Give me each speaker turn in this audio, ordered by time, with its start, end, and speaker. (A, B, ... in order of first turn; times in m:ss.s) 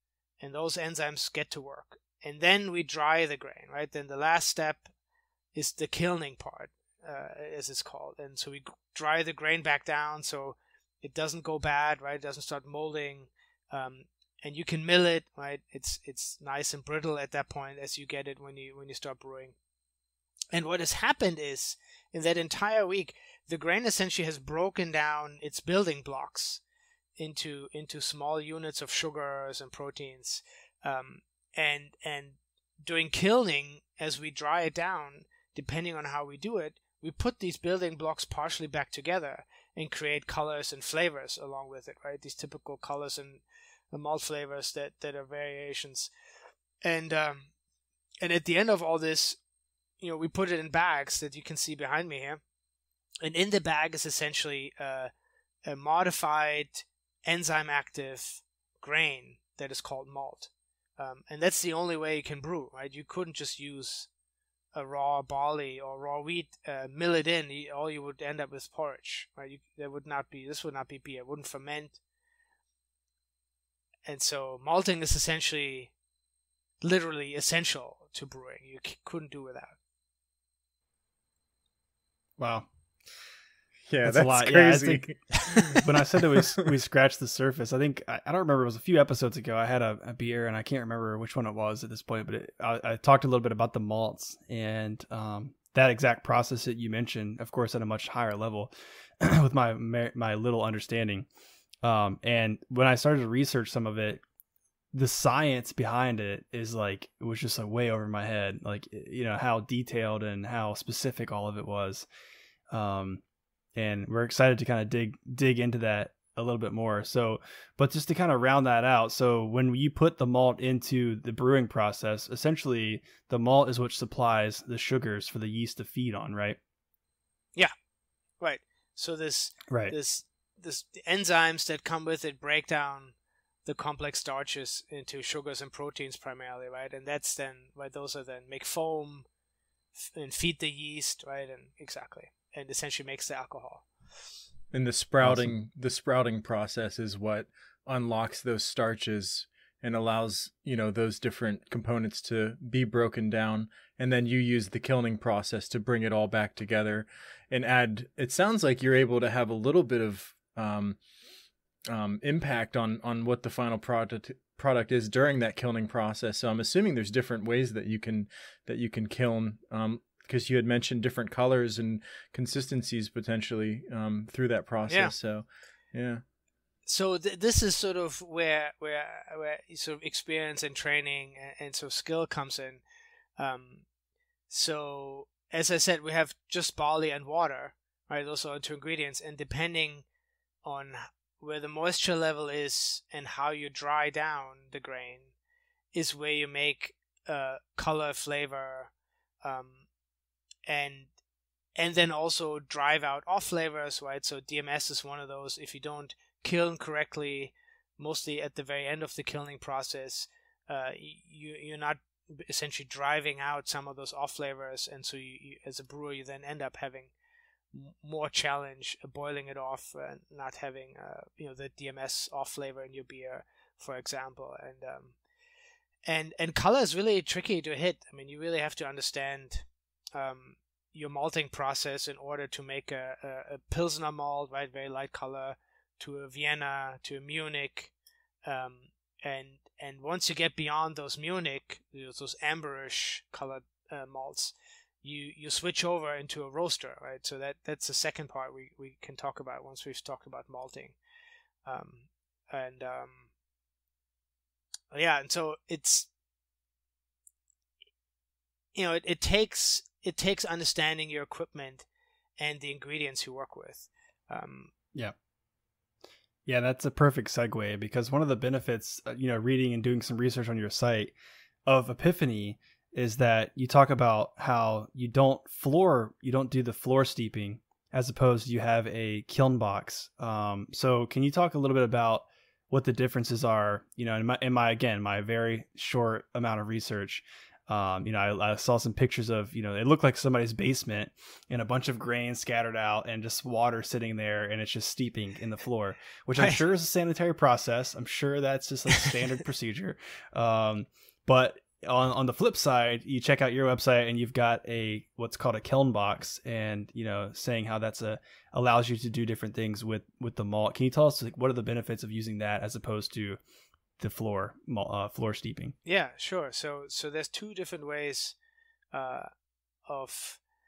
0:00.4-0:04.9 A
0:05.5-0:19.6 A
0:20.5-0:26.6 A
0:27.2-0:46.1 A
0:46.8-0:47.5 A
0:48.2-0:49.4 A
0:50.0-0:52.4 A
0:53.2-0:55.1 A
0:55.7-1:04.1 A
1:04.7-1:12.0 A
1:14.1-1:15.9 A
1:16.8-1:19.8 A
1:22.4-1:22.7 B
1:23.9-1:26.7 C
1:24.0-1:41.3 B
1:41.8-1:44.2 B
1:44.9-1:52.1 B
1:52.7-1:53.2 B
1:53.8-2:06.6 B
2:08.4-2:19.3 A
2:09.7-2:10.0 B
2:20.0-2:23.8 A
2:24.7-2:41.0 C
2:25.2-2:25.5 B
2:41.9-2:56.2 C
2:54.9-2:55.1 A
2:56.9-3:02.8 A
3:03.4-3:03.8 A
3:04.5-3:10.0 A
3:10.6-3:15.3 A
3:15.9-3:18.9 A
3:19.4-3:19.8 A
3:20.7-3:21.1 A
3:21.8-3:37.1 A
3:37.7-3:45.2 A
3:46.1-3:57.9 A
3:58.4-4:11.0 A
4:11.6-4:13.3 A
4:14.9-4:16.1 A
4:18.8-4:21.9 A
4:22.4-4:24.7 A
4:26.5-4:31.1 B
4:31.7-5:13.4 B
5:14.0-5:15.8 B
5:15.8-5:18.4 A
5:18.9-5:19.3 A
5:19.9-5:20.4 A